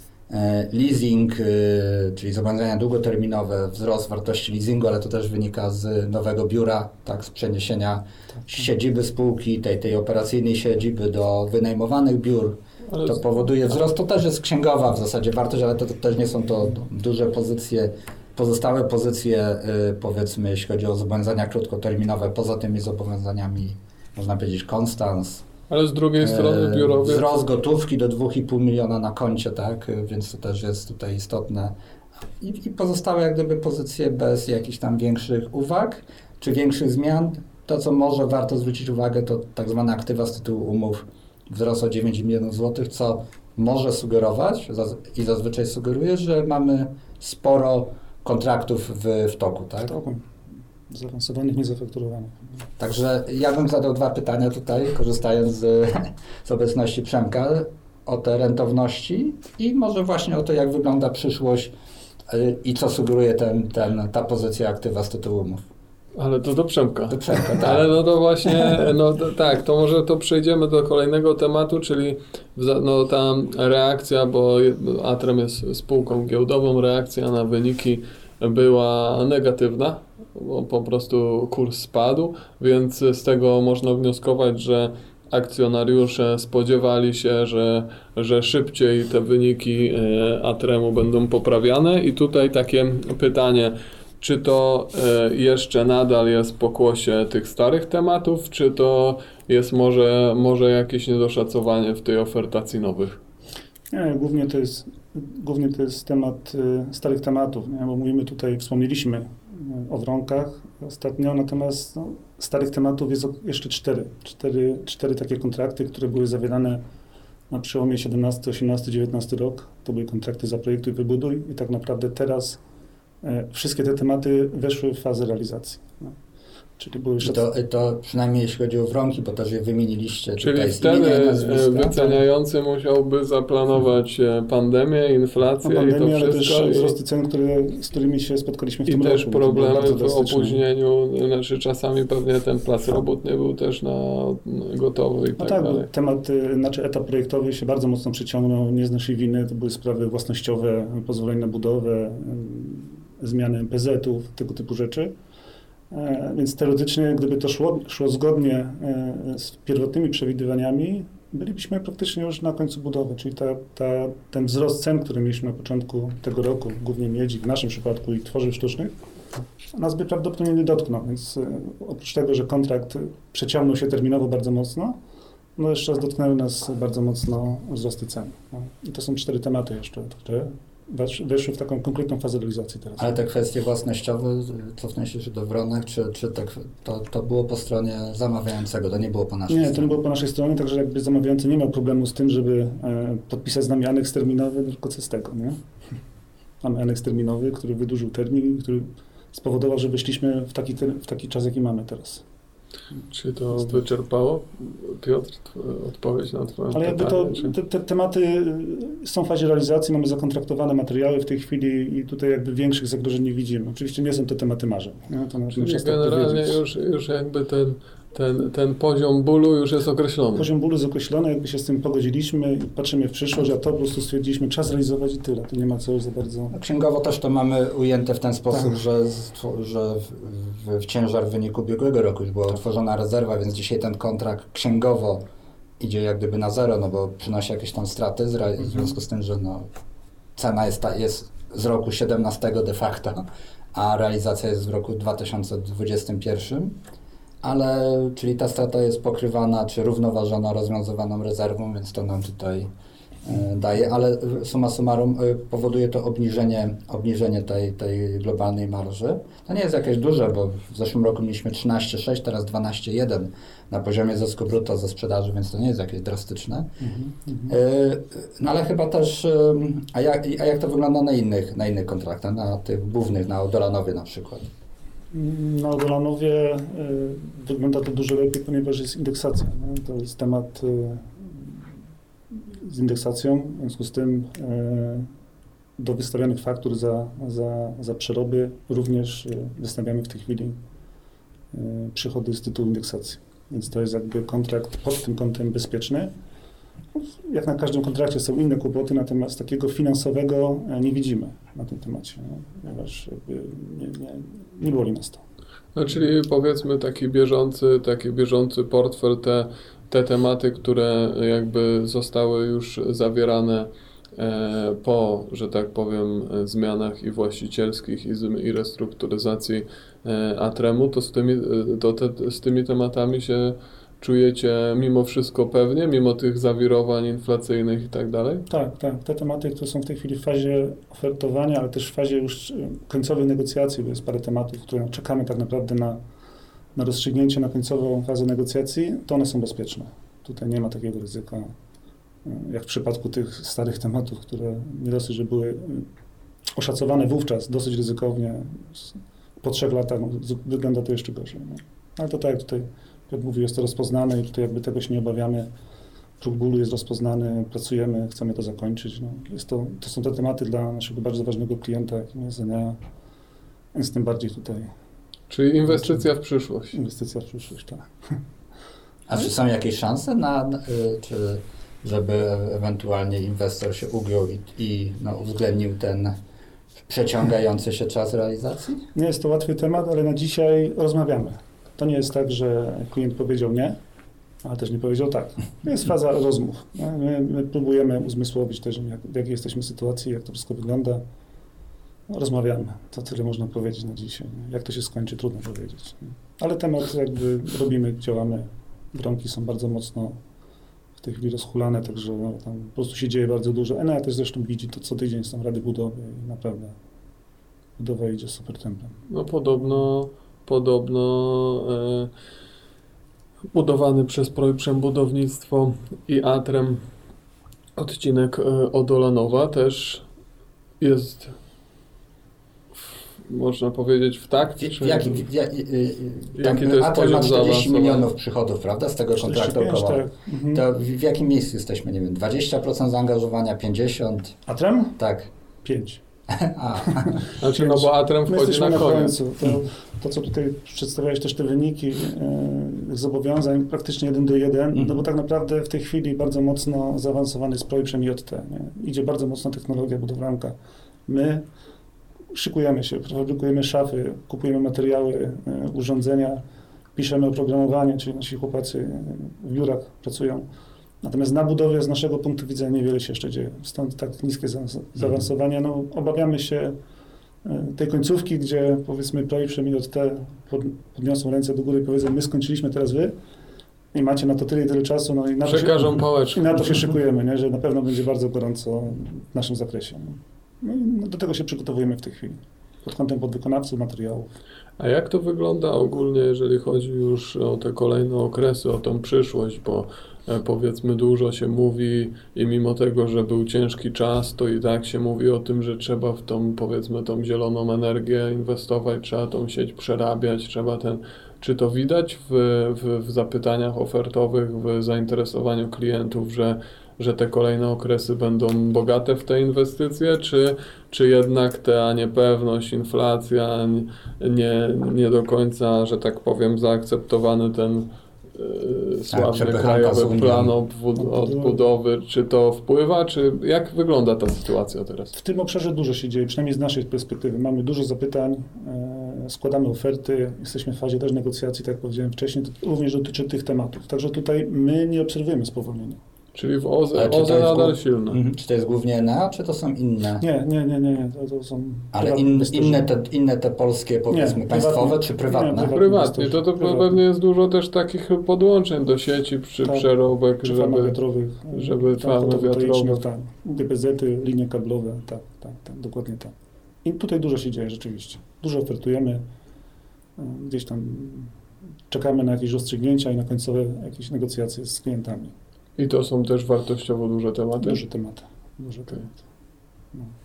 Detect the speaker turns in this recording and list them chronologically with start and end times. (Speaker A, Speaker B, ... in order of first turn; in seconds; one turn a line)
Speaker A: 0.3-25.4
Speaker B: 12.9-13.2
Speaker B: 25.7-27.3
Speaker A: 26.2-31.7
Speaker A: 32.4-50.0
Speaker C: 49.9-50.3
Speaker C: 50.9-52.6
Speaker A: 52.8-61.7
Speaker A: 62.3-65.7
Speaker B: 66.2-103.2
Speaker A: 67.1-67.9
Speaker C: 103.9-116.8
Speaker C: 117.5-122.6
Speaker C: 123.2-126.2
Speaker C: 126.8-127.4
Speaker A: 127.2-132.2
Speaker B: 130.4-136.9
Speaker C: 135.6-140.6
Speaker B: 138.9-145.9
Speaker C: 145.4-155.1
Speaker C: 155.9-168.9
Speaker C: 169.7-175.0
Speaker C: 175.6-183.2
Speaker A: 183.0-189.9
Speaker C: 189.5-195.6
Speaker C: 196.6-202.2
Speaker B: 203.1-207.5
Speaker C: 206.7-216.6
Speaker B: 215.5-220.5
Speaker C: 220.4-226.5
Speaker A: 226.5-235.2
Speaker A: 235.8-239.7
Speaker A: 240.4-246.8
Speaker A: 247.4-252.7
Speaker A: 253.2-266.7
Speaker C: 266.8-267.6
Speaker A: 267.5-274.5
Speaker C: 275.1-281.6
Speaker C: 282.3-285.1
Speaker C: 285.8-290.6
Speaker C: 291.5-296.1
Speaker C: 296.9-305.2
Speaker B: 305.8-328.5
Speaker C: 328.5-336.0
Speaker C: 336.8-341.5
Speaker C: 342.2-345.9
Speaker C: 346.6-355.5
Speaker C: 356.2-362.8
Speaker C: 363.7-364.7
Speaker B: 365.3-366.8
Speaker C: 365.7-366.1
Speaker C: 366.7-367.9
Speaker A: 369.1-376.1
Speaker A: 376.9-378.8
Speaker C: 378.9-383.8
Speaker C: 384.4-391.0
Speaker C: 392.1-400.2
Speaker C: 401.0-406.8
Speaker C: 407.8-409.0
Speaker B: 409.1-412.1
Speaker B: 413.5-416.8
Speaker B: 417.8-420.1
Speaker B: 420.8-421.3
Speaker B: 422.8-425.2
Speaker A: 424.6-430.0
Speaker B: 426.4-428.1
Speaker C: 429.2-430.6
Speaker A: 430.5-434.4
Speaker C: 434.5-435.0
Speaker A: 435.0-435.3
Speaker C: 435.6-436.0
Speaker A: 436.3-437.2
Speaker C: 436.9-450.6
Speaker B: 437.4-439.2
Speaker A: 444.7-445.0
Speaker C: 451.1-451.4
Speaker C: 452.3-456.4
Speaker C: 456.9-460.5
Speaker C: 461.0-466.8
Speaker C: 467.4-473.1
Speaker C: 473.9-484.3
Speaker B: 475.4-476.5
Speaker B: 484.8-525.1
Speaker A: 519.1-520.5
Speaker C: 521.0-521.7
Speaker C: 525.1-536.0
Speaker B: 536.4-538.2
Speaker A: 537.0-540.2
Speaker C: 540.2-542.9
Speaker A: 541.9-545.7
Speaker C: 544.1-547.0
Speaker B: 545.7-551.0
Speaker C: 550.4-559.2
Speaker B: 551.5-553.0
Speaker C: 560.2-561.3
Speaker C: 561.9-565.3
Speaker B: 565.8-567.8
Speaker C: 567.6-569.2